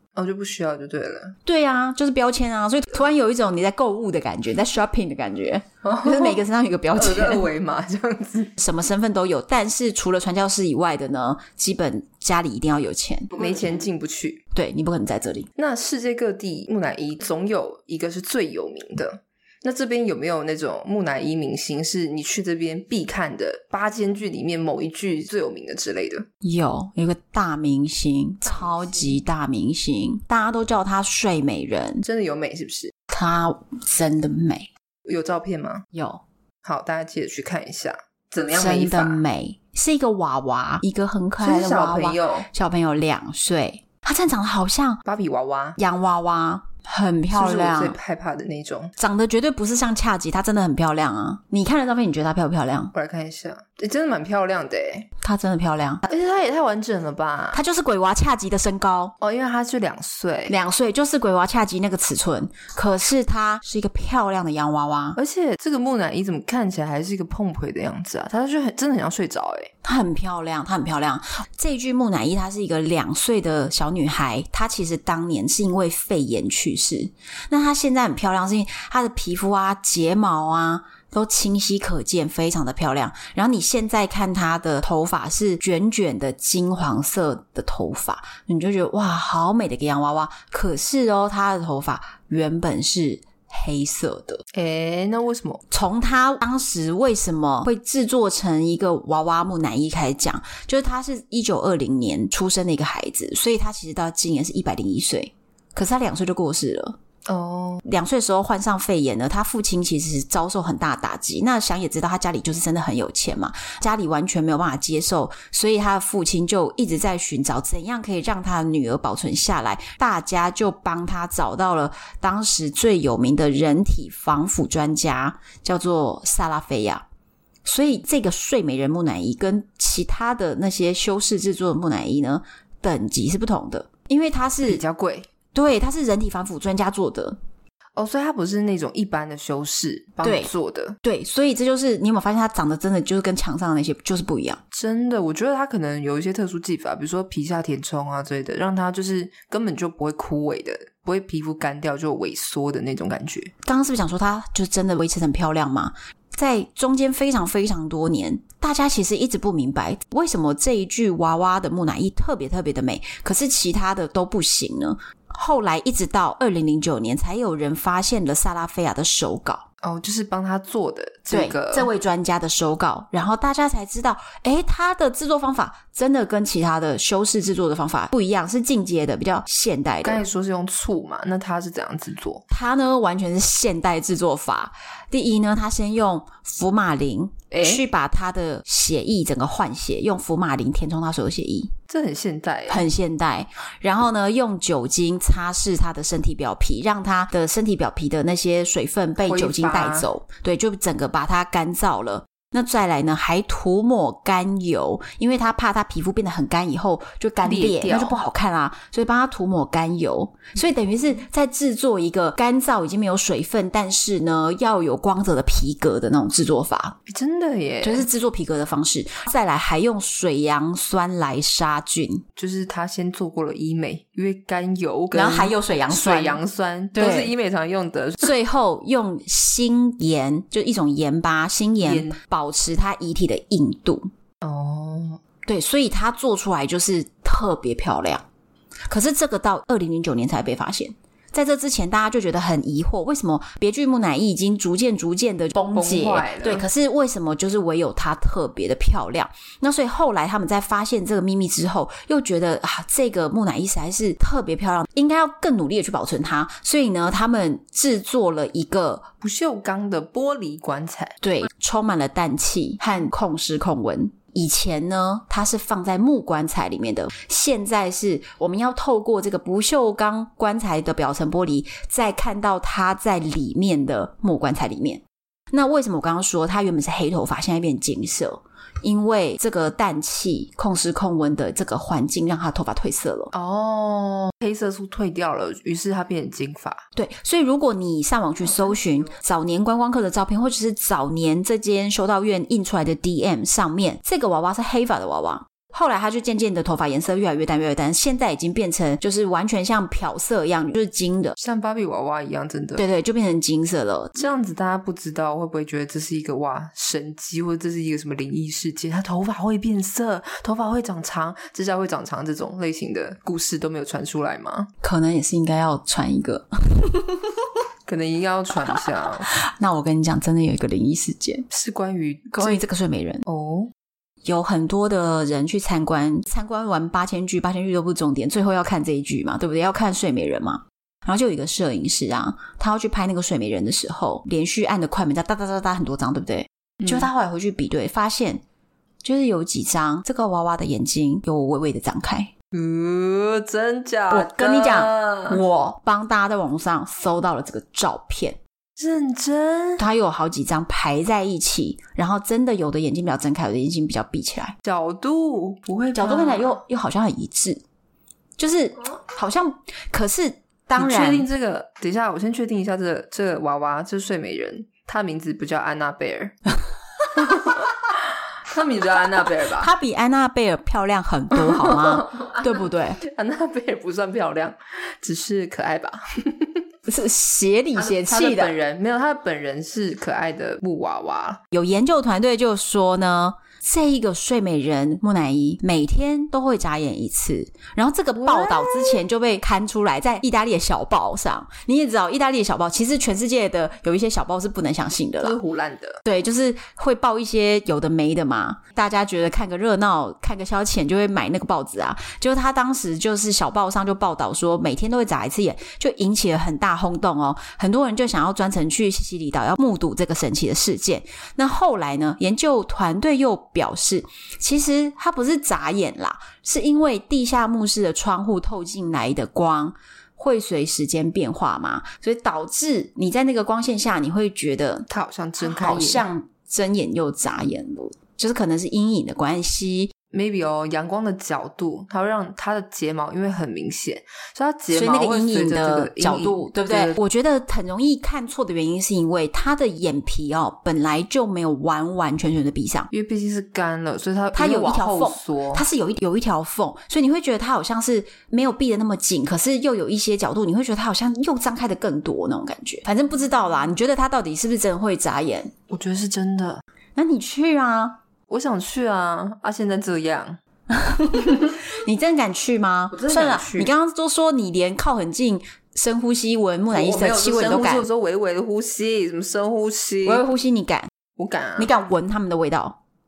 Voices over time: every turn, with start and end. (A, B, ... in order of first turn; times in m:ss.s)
0:00.1-0:01.4 A
0:01.4-0:07.4 B
0:05.8-0:08.5 A
0:08.6-0:13.4 B
0:13.3-0:14.4 A
0:14.5-0:15.5 B
0:15.6-0:26.2 A
0:26.4-0:32.0 B
0:28.4-0:29.2 A
0:32.0-0:32.9 A
0:33.1-0:34.7 B
0:35.0-0:35.8 A
0:35.9-0:36.2 B
0:36.6-0:39.2 A
0:38.5-0:45.0 B
0:41.4-0:42.5 A
0:45.0-0:45.8 A
0:45.8-0:48.0 B
0:47.3-0:48.9 A
0:49.0-0:52.9 B
0:52.9-0:55.1 A
0:55.2-0:56.0 B
0:56.1-0:57.6 A
0:57.5-0:59.1 B
0:59.2-1:00.5 A
1:00.5-1:05.2 B
1:05.2-1:09.7 A
1:09.8-1:34.4 B
1:34.5-1:35.6 A
1:35.7-1:47.0 B
1:47.2-1:47.8 A
1:47.8-2:07.0 B
2:07.6-2:14.8 B
2:14.6-2:15.3 A
2:15.5-2:17.4 B
2:17.9-2:21.0 A
2:20.2-2:24.6 B
2:24.7-2:33.5 A
2:33.6-2:49.6 B
2:49.8-2:51.9 A
2:51.3-3:00.2 B
3:00.0-3:02.4 A
3:02.5-3:11.7 B
3:07.5-3:07.8 A
3:11.9-3:12.8 A
3:12.7-3:37.0 B
3:19.2-3:20.1 A
3:27.4-3:28.2 A
3:37.1-3:38.0 A
3:37.8-3:42.2 B
3:42.4-3:48.3 A
3:45.1-3:46.4 B
3:46.9-3:47.3 B
3:48.2-3:54.1 B
3:51.8-3:52.2 A
3:54.4-3:55.2 A
3:55.4-3:58.2 B
3:58.9-4:19.1 B
4:05.7-4:06.6 A
4:19.2-4:21.2 A
4:21.2-4:43.3 B
4:43.3-4:46.8 A
4:46.9-5:01.4 B
4:48.4-4:49.1 A
5:01.4-5:02.8 A
5:02.8-5:04.2 B
5:04.2-5:14.7 A
5:14.8-5:17.4 B
5:17.8-5:19.3 A
5:19.3-5:21.4 B
5:21.5-5:22.6 A
5:22.3-5:23.2 B
5:23.2-5:23.7 A
5:24.2-5:38.4 B
5:39.0-5:42.3 B
5:42.5-5:45.4 A
5:44.1-5:48.4 B
5:48.8-5:49.8 A
5:49.8-5:54.5 B
5:54.6-5:56.6 A
5:55.9-5:57.6 B
5:58.4-6:01.3 B
6:00.8-6:06.4 A
6:07.1-6:09.7 A
6:09.5-6:13.0 B
6:11.3-6:16.6 A
6:16.9-6:18.5 B
6:17.8-6:21.4 A
6:21.5-6:35.4 B
6:28.2-6:29.0 A
6:35.2-6:36.0 A
6:36.0-7:04.9 B
7:04.9-7:06.0 A
7:05.4-7:09.9 B
7:10.1-7:17.0 A
7:14.7-7:22.9 B
7:22.9-7:25.6 A
7:24.3-7:35.5 B
7:35.7-7:36.6 A
7:37.0-7:38.0 B
7:38.3-7:40.4 A
7:40.7-7:47.8 B
7:42.9-7:43.7 A
7:46.7-7:50.2 A
7:50.0-7:50.9 B
7:51.2-7:51.8 A
7:51.6-7:52.8 B